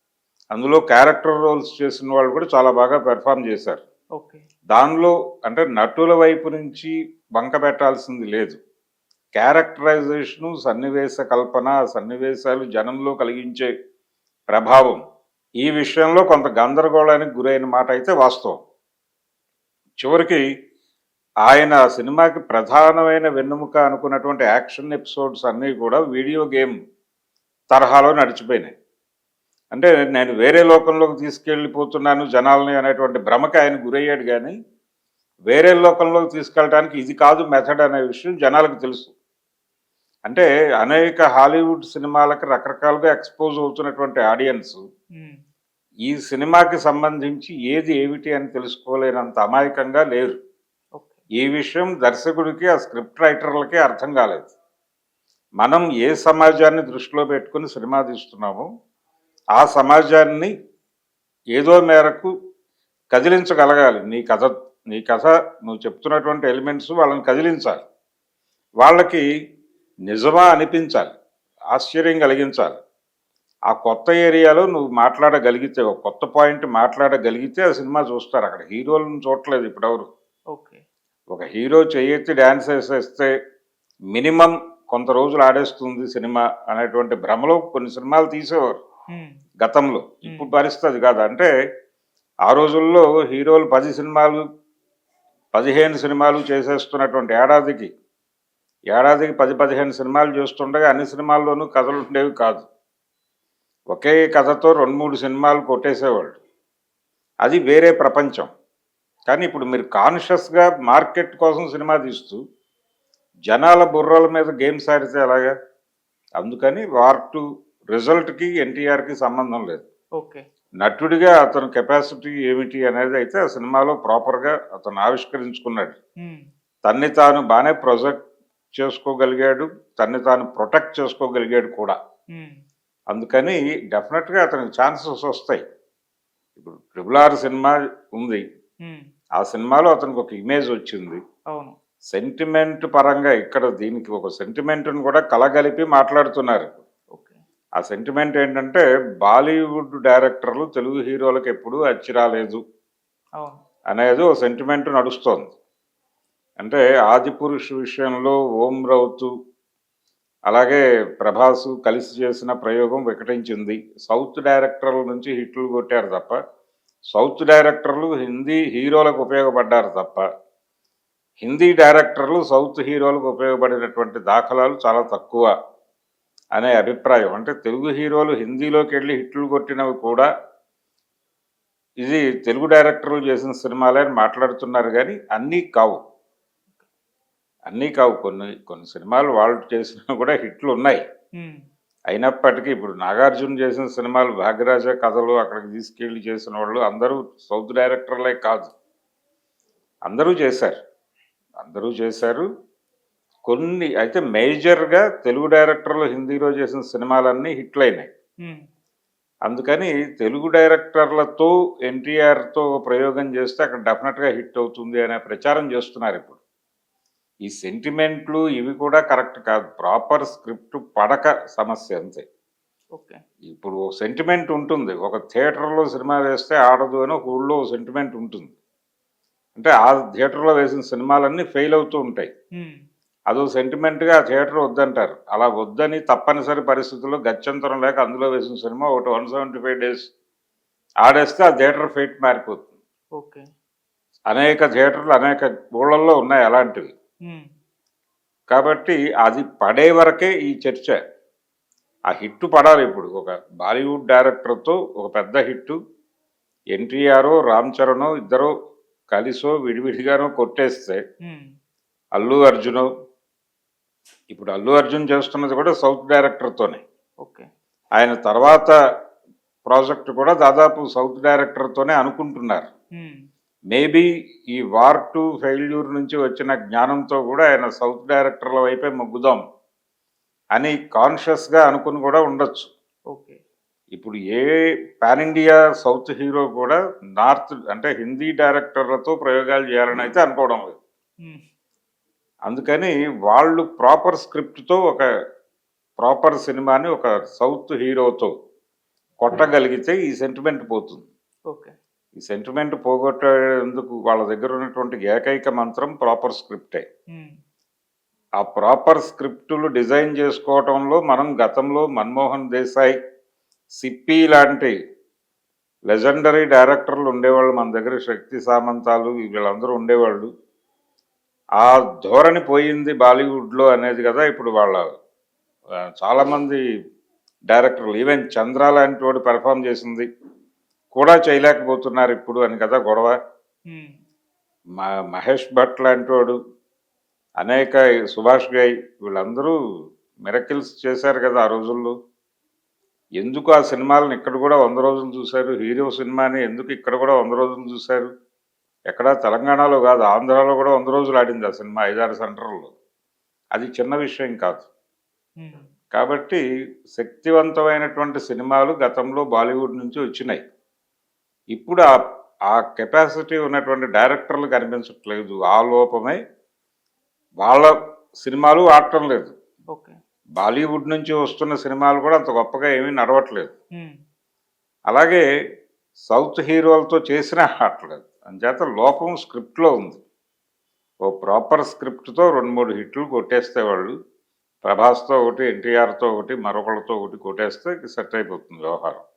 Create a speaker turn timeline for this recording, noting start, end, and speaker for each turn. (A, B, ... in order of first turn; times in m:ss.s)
0:00.5-0:03.8 A
0:04.2-0:04.4 B
0:04.7-0:08.6 A
0:09.4-0:13.7 A
0:14.5-0:15.0 A
0:15.6-0:18.6 A
0:20.0-0:20.4 A
0:21.4-0:26.8 A
0:27.7-0:28.7 A
0:29.7-0:34.5 A
0:35.5-0:39.1 A
0:40.3-0:44.8 A
0:46.1-0:50.4 A
0:51.4-0:54.5 A
0:55.6-0:58.7 A
0:59.6-1:00.5 A
1:01.6-1:02.3 A
1:03.1-1:07.8 A
1:08.8-1:09.2 A
1:10.1-1:11.1 A
1:11.7-1:12.8 A
1:13.7-1:20.1 A
1:20.5-1:20.8 B
1:21.3-1:23.3 A
1:24.1-1:28.8 A
1:29.1-1:29.3 B
1:29.6-1:31.5 A
1:32.5-1:34.4 A
1:35.5-1:37.9 A
1:38.9-1:42.7 A
1:43.9-1:46.4 A
1:47.4-1:48.5 A
1:49.3-1:52.4 A
1:53.5-1:55.5 A
1:56.4-1:59.8 A
2:00.2-2:00.4 B
2:00.8-2:06.0 A
2:06.2-2:06.5 B
2:06.8-2:08.2 A
2:08.7-2:12.0 A
2:12.3-2:12.6 B
2:13.1-2:15.6 A
2:16.6-2:18.4 A
2:19.4-2:21.2 A
2:22.1-2:26.8 A
2:27.1-2:27.4 B
2:27.8-2:32.6 A
2:33.9-2:35.5 A
2:36.6-2:39.3 A
2:40.5-2:46.4 A
2:47.1-2:50.2 A
2:51.4-2:55.5 A
2:56.6-3:00.3 A
3:02.0-3:06.0 A
3:07.7-3:11.0 A
3:12.1-3:18.7 A
3:20.1-3:20.8 A
3:21.6-3:22.5 A
3:23.5-3:28.1 A
3:29.5-3:36.4 A
3:37.5-3:42.2 A
3:42.9-3:43.2 B
3:43.5-3:48.5 A
3:49.6-3:52.3 A
3:53.3-4:00.1 A
4:01.0-4:02.6 A
4:03.2-4:03.5 B
4:04.3-4:06.9 A
4:08.5-4:11.0 A
4:12.1-4:15.8 A
4:16.7-4:18.5 A
4:19.1-4:21.0 A
4:21.2-4:21.5 B
4:22.2-4:22.9 A
4:24.3-4:26.8 A
4:27.2-4:27.5 B
4:28.0-4:28.7 A
4:29.6-4:32.7 A
4:33.0-4:33.2 B
4:33.7-4:39.4 A
4:40.6-4:42.7 A
4:43.1-4:43.4 B
4:43.9-4:44.4 A
4:45.0-4:50.8 A
4:52.5-4:55.0 A
4:56.0-4:58.3 A
4:59.2-5:01.0 A
5:01.5-5:01.7 B
5:02.2-5:06.8 A
5:08.4-5:13.0 A
5:13.8-5:14.7 A
5:15.9-5:20.3 A
5:21.6-5:24.8 A
5:26.0-5:26.6 A
5:27.5-5:30.0 A
5:30.9-5:33.1 A
5:33.7-5:34.0 B
5:34.8-5:36.4 A
5:37.4-5:39.5 A
5:40.2-5:41.9 A
5:43.2-5:48.1 A
5:48.9-5:52.7 A
5:53.6-5:54.6 A
5:55.4-5:55.6 B
5:55.9-5:56.4 A
5:57.0-6:00.4 A
6:01.5-6:01.9 A
6:02.5-6:06.2 A
6:07.4-6:09.3 A
6:09.7-6:10.0 B
6:10.4-6:13.5 A
6:14.9-6:15.2 A
6:16.1-6:20.0 A
6:21.0-6:23.9 A
6:24.6-6:29.0 A